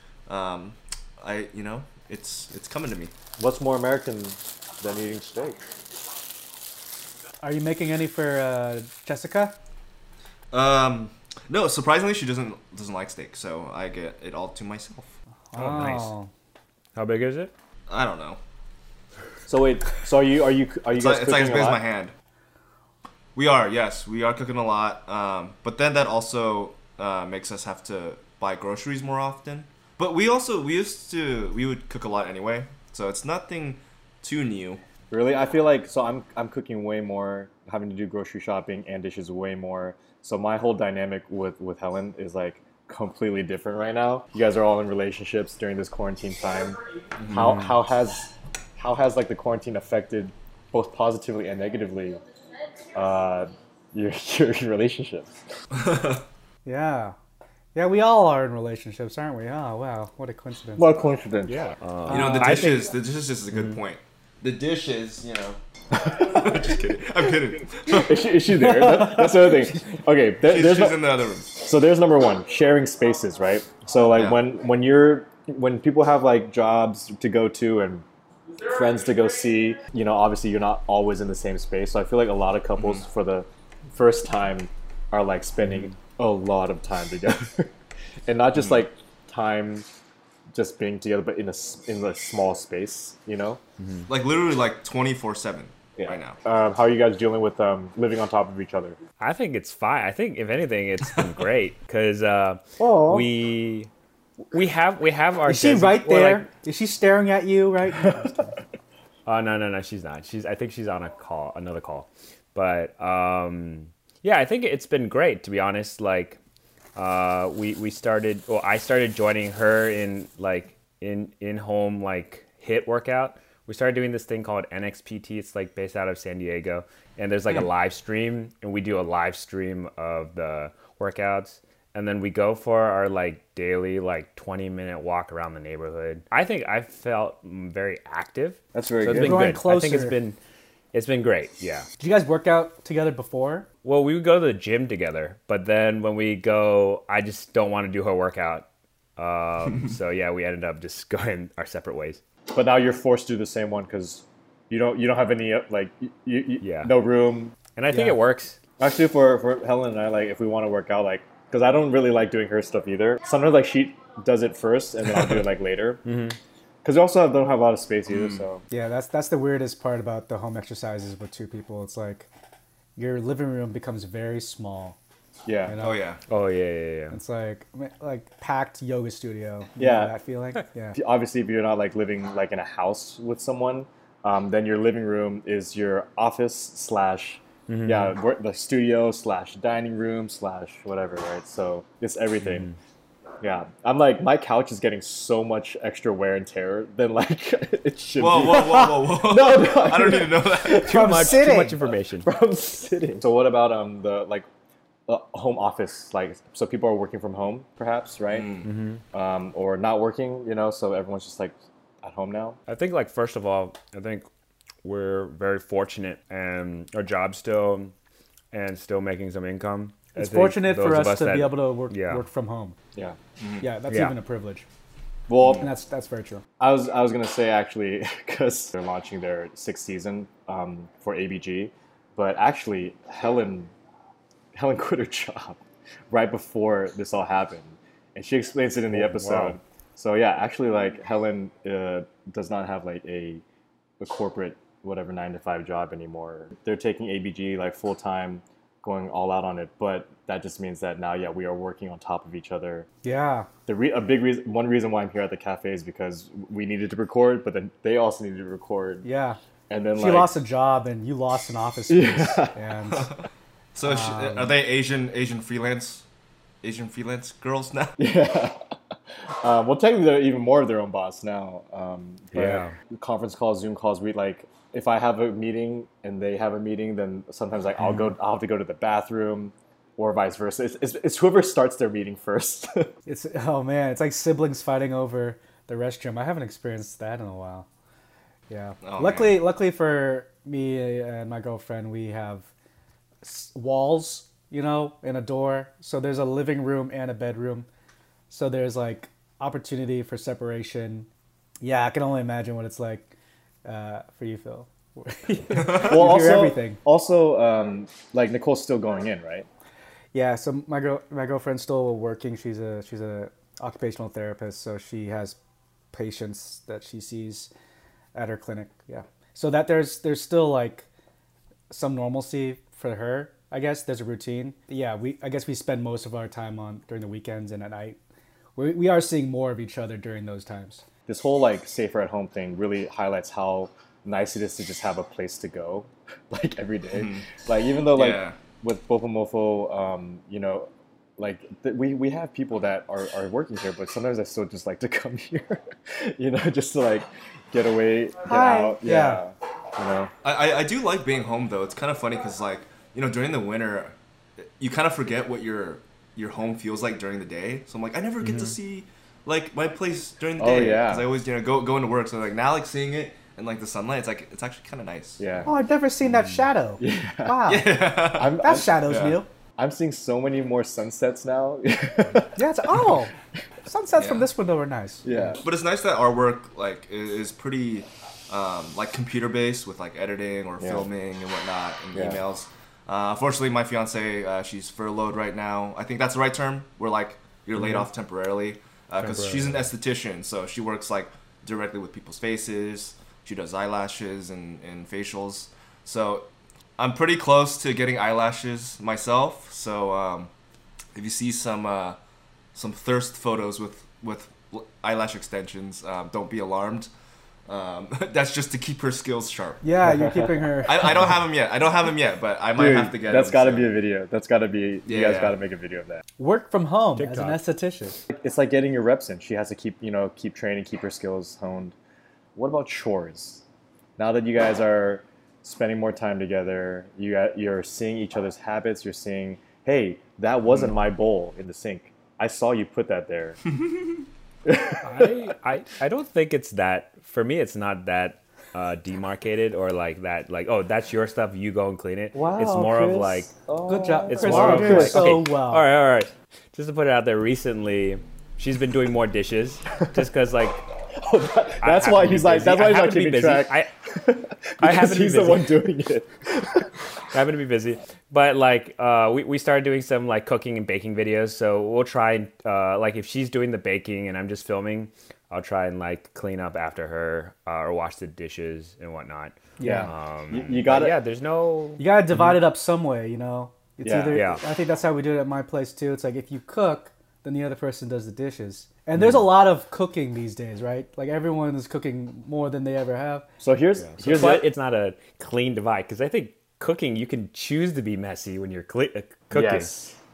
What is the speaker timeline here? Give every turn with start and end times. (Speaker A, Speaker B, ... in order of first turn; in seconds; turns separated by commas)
Speaker A: 0.3-3.1, Speaker B: 3.4-5.6, Speaker C: 7.4-9.5, Speaker A: 10.5-15.1, Speaker C: 15.5-16.3, Speaker D: 15.6-16.1, Speaker D: 16.9-17.5, Speaker A: 17.9-18.4, Speaker B: 19.5-21.8, Speaker A: 20.9-22.1, Speaker A: 23.3-34.8, Speaker B: 35.1-52.2, Speaker A: 47.2-47.5, Speaker D: 47.4-47.7, Speaker B: 52.9-55.3, Speaker A: 55.7-56.2, Speaker C: 56.6-57.1, Speaker C: 57.7-60.9, Speaker B: 60.8-61.6, Speaker D: 61.5-62.9, Speaker C: 62.1-62.7, Speaker A: 62.1-68.2, Speaker D: 63.5-63.8, Speaker B: 67.9-71.0, Speaker A: 70.4-71.5, Speaker B: 71.5-78.0, Speaker B: 78.6-87.7, Speaker B: 88.3-89.8, Speaker A: 88.6-88.8, Speaker B: 90.5-93.6, Speaker D: 93.8-94.0, Speaker A: 94.1-96.4, Speaker B: 96.0-99.0, Speaker D: 99.2-103.9, Speaker B: 102.8-103.3, Speaker D: 104.5-106.4, Speaker C: 105.5-108.3, Speaker D: 109.2-116.4, Speaker D: 117.0-140.4, Speaker B: 138.7-139.6, Speaker C: 139.1-140.2, Speaker D: 140.9-141.9, Speaker C: 142.0-143.7, Speaker D: 143.8-152.2, Speaker B: 152.5-158.1, Speaker D: 156.6-156.9, Speaker D: 157.8-158.6, Speaker B: 158.8-166.0, Speaker D: 166.0-166.4, Speaker B: 166.8-168.6, Speaker A: 168.1-168.4, Speaker C: 168.7-172.3, Speaker C: 172.9-175.0, Speaker B: 175.4-175.8, Speaker C: 175.7-176.0, Speaker A: 175.8-176.2, Speaker D: 176.3-177.2, Speaker C: 177.1-181.0, Speaker B: 179.8-180.1, Speaker B: 180.9-192.7, Speaker D: 187.7-188.1, Speaker D: 192.5-192.7, Speaker B: 193.4-201.4, Speaker A: 198.2-200.9, Speaker D: 200.8-202.3, Speaker C: 200.9-201.8, Speaker B: 202.2-204.4, Speaker B: 205.1-208.5, Speaker A: 208.3-208.7, Speaker D: 208.6-209.0, Speaker B: 209.1-212.6, Speaker D: 212.7-214.3, Speaker D: 214.8-217.9, Speaker D: 218.5-222.2, Speaker C: 220.1-222.8, Speaker A: 223.4-223.6, Speaker C: 223.6-224.7, Speaker D: 223.9-224.2, Speaker B: 225.3-225.7, Speaker C: 225.4-226.4, Speaker B: 226.6-233.7, Speaker B: 234.5-243.4, Speaker D: 238.9-239.6, Speaker B: 244.0-252.9, Speaker C: 253.0-253.5, Speaker B: 253.7-259.1, Speaker C: 259.0-259.4, Speaker B: 259.7-260.3, Speaker C: 259.9-263.1, Speaker B: 261.9-262.6, Speaker A: 263.8-266.0, Speaker C: 263.8-264.5, Speaker A: 266.6-268.0, Speaker B: 268.0-268.6, Speaker B: 269.3-282.9, Speaker D: 272.3-272.7, Speaker C: 283.1-287.7, Speaker C: 288.5-292.5, Speaker A: 288.8-289.4, Speaker C: 293.2-297.7, Speaker C: 298.3-301.1, Speaker C: 301.6-303.1, Speaker C: 303.6-306.8, Speaker B: 305.7-309.5, Speaker C: 310.1-315.4, Speaker C: 315.9-317.5, Speaker C: 318.1-320.9, Speaker C: 321.7-328.0, Speaker C: 328.6-330.8, Speaker B: 331.1-350.1, Speaker A: 336.9-337.3, Speaker A: 337.9-338.4, Speaker C: 348.3-349.2, Speaker A: 350.2-353.9, Speaker A: 354.6-365.3, Speaker D: 358.2-358.5, Speaker B: 360.4-361.1, Speaker B: 365.2-365.5, Speaker C: 365.4-367.7, Speaker B: 366.8-367.4, Speaker A: 367.4-369.2, Speaker B: 368.1-368.8, Speaker C: 368.4-369.3, Speaker B: 369.6-372.4, Speaker C: 372.4-373.1, Speaker C: 373.6-375.1, Speaker A: 374.0-374.3, Speaker B: 375.0-375.4, Speaker A: 375.4-400.3, Speaker B: 380.6-380.9, Speaker B: 381.9-382.2, Speaker D: 387.6-387.9, Speaker D: 389.0-389.6, Speaker A: 400.9-402.0, Speaker A: 402.5-406.9, Speaker A: 407.5-409.6, Speaker C: 409.6-411.0, Speaker A: 410.6-413.7, Speaker B: 412.6-416.0, Speaker A: 414.9-415.4, Speaker C: 416.2-418.0, Speaker D: 417.0-417.4, Speaker B: 418.1-421.8, Speaker B: 422.4-423.4, Speaker B: 424.0-433.4, Speaker B: 434.4-435.1, Speaker D: 434.8-443.3, Speaker B: 442.1-445.2, Speaker C: 443.7-445.6, Speaker D: 444.1-450.6, Speaker B: 451.0-456.7, Speaker D: 451.6-453.7, Speaker D: 454.6-455.5, Speaker D: 457.1-472.4, Speaker C: 469.6-469.9, Speaker B: 469.6-471.0, Speaker C: 471.8-483.2, Speaker B: 473.8-474.2, Speaker D: 474.1-474.4, Speaker D: 479.0-479.3, Speaker B: 483.4-484.5, Speaker D: 483.8-489.7, Speaker B: 489.3-489.9